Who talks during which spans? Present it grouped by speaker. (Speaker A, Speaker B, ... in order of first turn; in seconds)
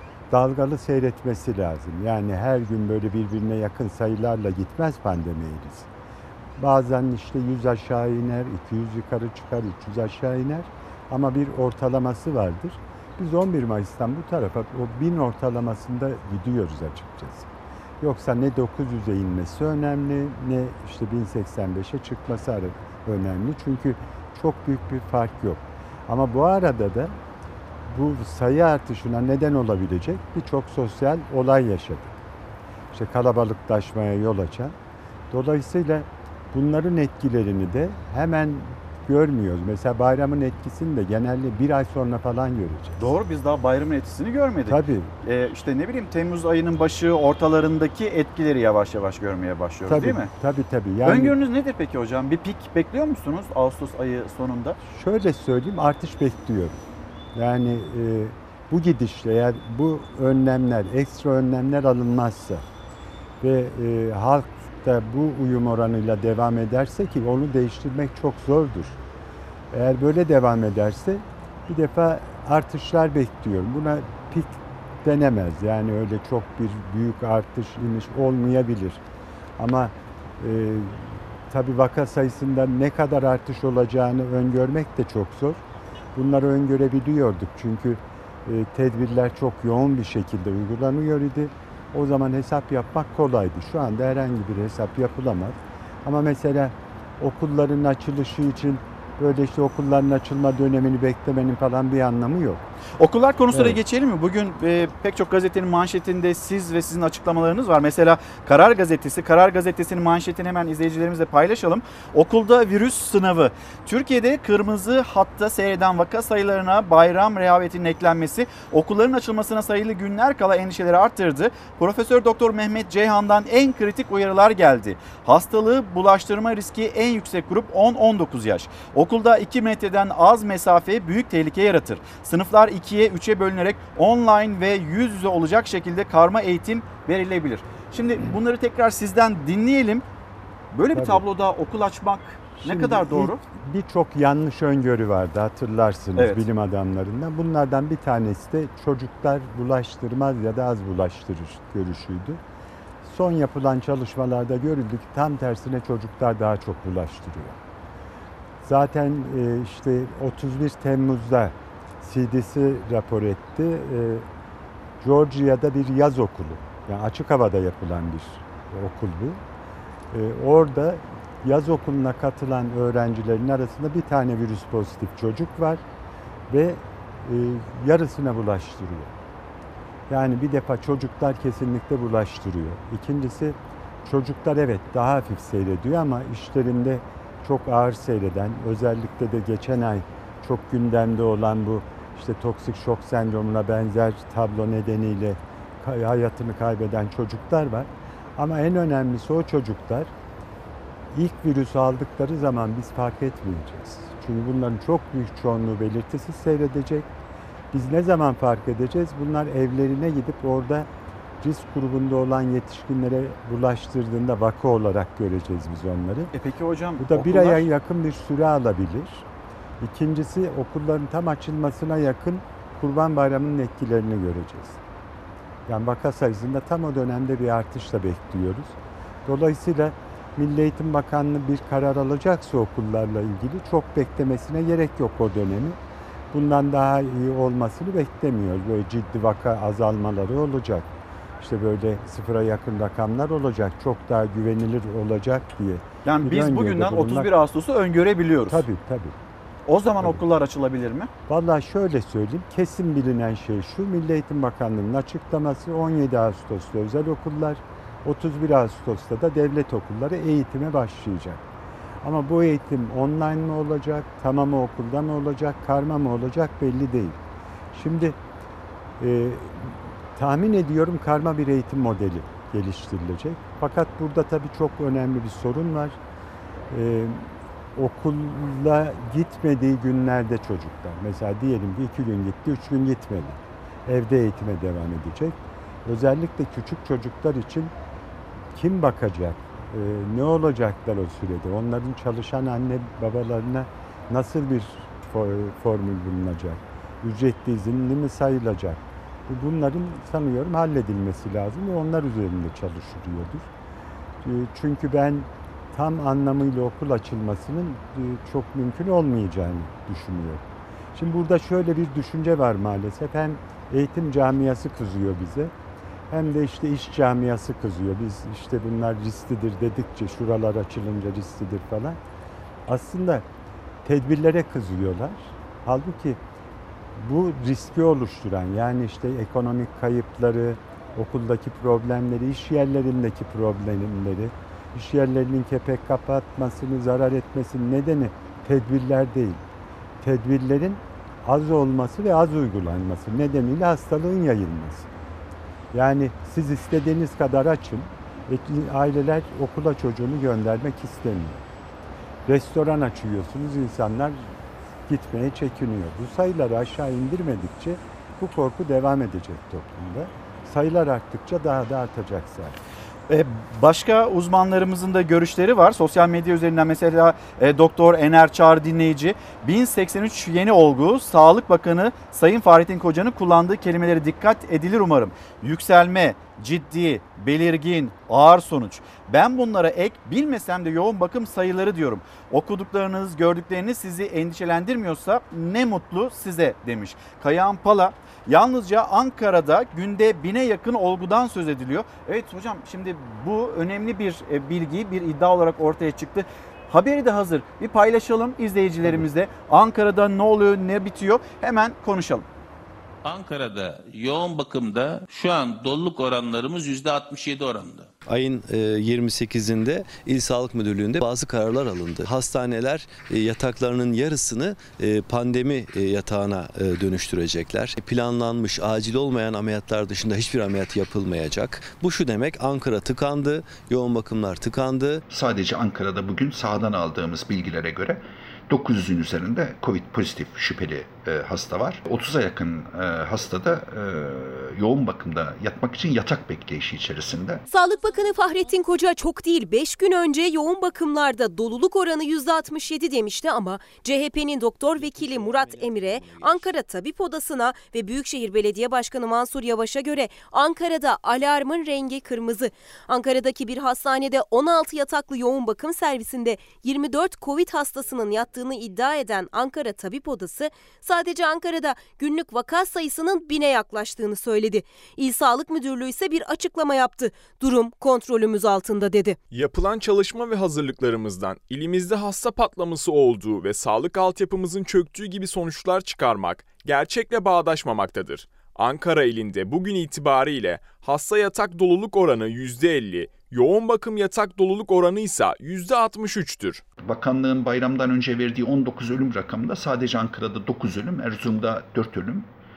Speaker A: 0.3-5.9, 6.6-17.5, 18.0-27.1, 27.9-32.2, 32.9-34.8, 35.3-43.1, 44.7-45.1, 49.9-51.4, 54.8-56.8, 57.4-62.6, 63.4-69.0, 69.7-79.0, 79.6-85.6, 86.2-102.6, 103.5-103.8, 140.9-141.2, 142.6-152.4, 153.0-157.6, 158.6-164.3, 165.0-169.4, 170.1-175.8, 176.5-179.2, 180.1-200.1, 201.1-207.1, 207.7-210.9, 211.4-216.3, 217.0-219.3, 219.8-224.8, 225.7-235.8, 236.3-247.3, 248.5-249.2, 251.3-261.4, 262.0-267.2, 267.7-268.2, 269.0-276.0, 276.7-287.7, 288.5-303.5, 304.2-315.5, 316.1-322.0, 322.7-323.2, 323.9-326.2, 327.0-339.4, 340.0-344.9, 345.7-351.4, 352.3-354.3, 354.9-362.6
Speaker B: 43.0-50.3, 51.0-54.8, 103.0-140.1, 140.7-143.4, 146.2-146.4, 216.3-217.6, 246.1-248.6, 249.7-251.1, 363.1-402.3
Speaker C: 403.0-407.9
Speaker D: 408.1-425.0
Speaker E: 425.1-437.4, 486.8-492.3
Speaker F: 437.5-469.2
Speaker G: 469.3-486.6